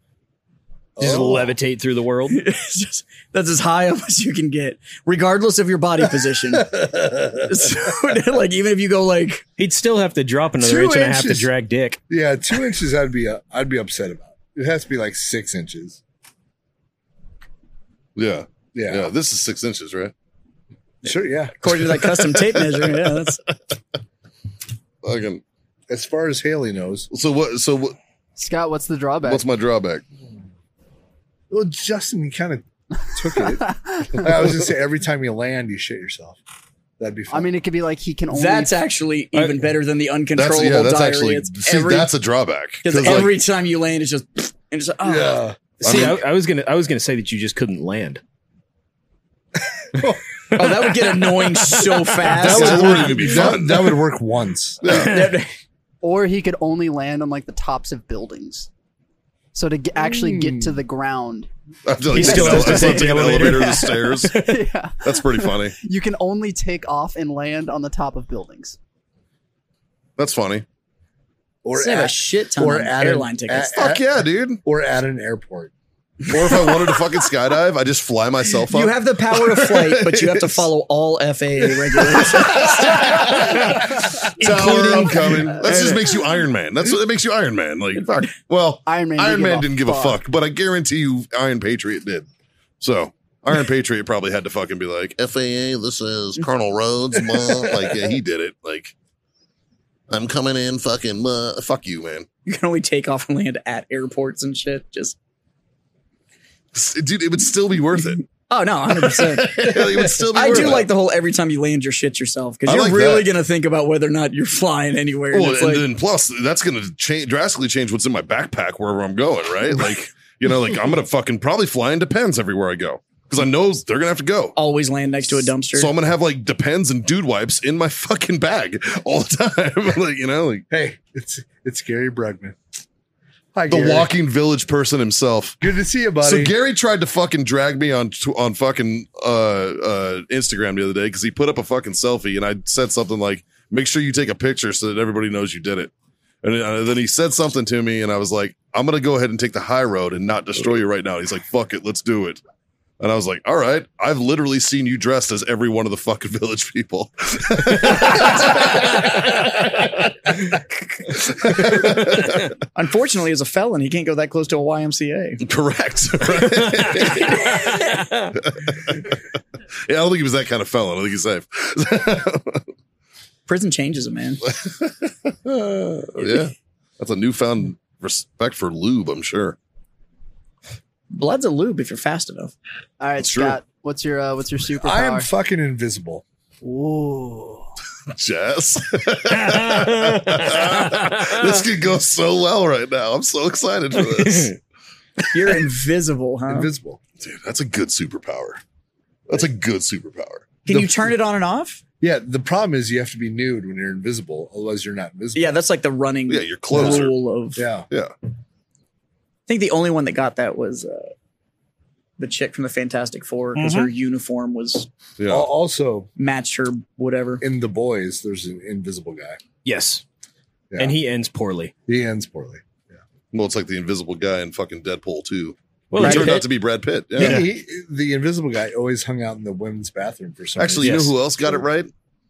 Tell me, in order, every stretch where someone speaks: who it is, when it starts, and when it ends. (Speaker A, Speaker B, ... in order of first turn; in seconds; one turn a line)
Speaker A: 1.0-1.6
Speaker B: 1.0-2.4
Speaker C: 2.3-9.5
Speaker A: 6.5-7.7
Speaker B: 9.6-12.0
Speaker A: 10.6-11.5
Speaker A: 12.1-16.0
Speaker D: 18.2-20.1
Speaker A: 18.7-19.1
Speaker A: 21.0-21.6
Speaker C: 21.1-23.4
Speaker D: 21.7-23.2
Speaker D: 25.0-25.4
Speaker A: 25.9-27.1
Speaker D: 27.1-28.0
Speaker E: 28.4-29.4
Speaker D: 29.2-30.0
Speaker A: 31.5-36.4
Speaker E: 33.4-34.3
Speaker A: 37.0-37.5
Speaker E: 37.3-38.8
Speaker C: 38.3-42.1
Speaker B: 39.4-39.6
Speaker D: 40.4-43.4
Speaker C: 42.8-45.4
Speaker A: 45.0-46.1
Speaker B: 45.8-48.2
Speaker D: 45.8-46.2
Speaker C: 50.5-53.2
Speaker A: 52.3-54.8
Speaker D: 52.4-54.0
Speaker D: 54.8-55.3
Speaker C: 54.9-55.5
Speaker B: 54.9-55.4
Speaker E: 56.0-58.7
Speaker E: 59.5-61.5
Speaker A: 60.1-60.8
Speaker D: 61.9-64.4
Speaker B: 62.1-63.9
Speaker E: 62.2-68.8
Speaker C: 62.2-63.0
Speaker D: 65.0-65.8
Speaker D: 70.2-70.7
Speaker A: 71.6-74.1
Speaker C: 71.8-73.7
Speaker D: 73.7-74.6
Speaker A: 74.6-75.7
Speaker D: 76.3-80.7
Speaker C: 78.7-83.8
Speaker D: 82.0-92.3
Speaker C: 84.4-86.0
Speaker E: 88.9-90.2
Speaker D: 92.8-99.0
Speaker A: 97.5-98.0
Speaker D: 100.1-102.3
Speaker C: 102.5-105.2
Speaker D: 106.7-108.3
Speaker C: 108.5-115.9
Speaker D: 109.0-110.9
Speaker D: 112.7-113.3
Speaker D: 115.3-124.6
Speaker C: 124.6-125.9
Speaker D: 125.7-130.7
Speaker A: 130.7-132.6
Speaker A: 133.5-134.1
Speaker D: 133.7-135.6
Speaker A: 135.6-136.5
Speaker D: 136.2-152.4
Speaker D: 153.0-159.8
Speaker D: 161.1-162.5
Speaker C: 162.7-165.4
Speaker D: 165.4-167.8
Speaker B: 167.7-168.3
Speaker D: 168.3-169.2
Speaker D: 169.9-172.7
Speaker C: 173.5-174.4
Speaker D: 174.5-179.6
Speaker C: 181.1-182.5
Speaker E: 183.0-185.3
Speaker D: 183.2-183.6
Speaker A: 184.8-186.2
Speaker E: 186.6-187.7
Speaker D: 188.1-194.6
Speaker B: 189.5-191.1
Speaker B: 194.2-194.5
Speaker C: 195.3-196.7
Speaker A: 196.5-197.0
Speaker D: 197.2-198.6
Speaker D: 199.3-200.5
Speaker C: 200.7-201.8
Speaker A: 200.7-201.0
Speaker A: 202.0-205.6
Speaker C: 205.3-207.7
Speaker D: 206.3-207.2
Speaker A: 206.7-207.9
Speaker C: 209.5-211.1
Speaker C: 212.2-214.9
Speaker B: 213.6-213.9
Speaker D: 215.2-215.5
Speaker A: 215.3-216.1
Speaker C: 216.2-217.4
Speaker A: 217.4-219.4
Speaker B: 219.6-220.0
Speaker A: 220.7-221.0
Speaker B: 220.8-221.7
Speaker A: 221.9-223.0
Speaker D: 223.3-227.4
Speaker B: 225.9-226.5
Speaker C: 226.0-226.4
Speaker A: 227.2-231.1
Speaker B: 227.2-227.5
Speaker D: 230.6-231.9
Speaker B: 230.8-231.1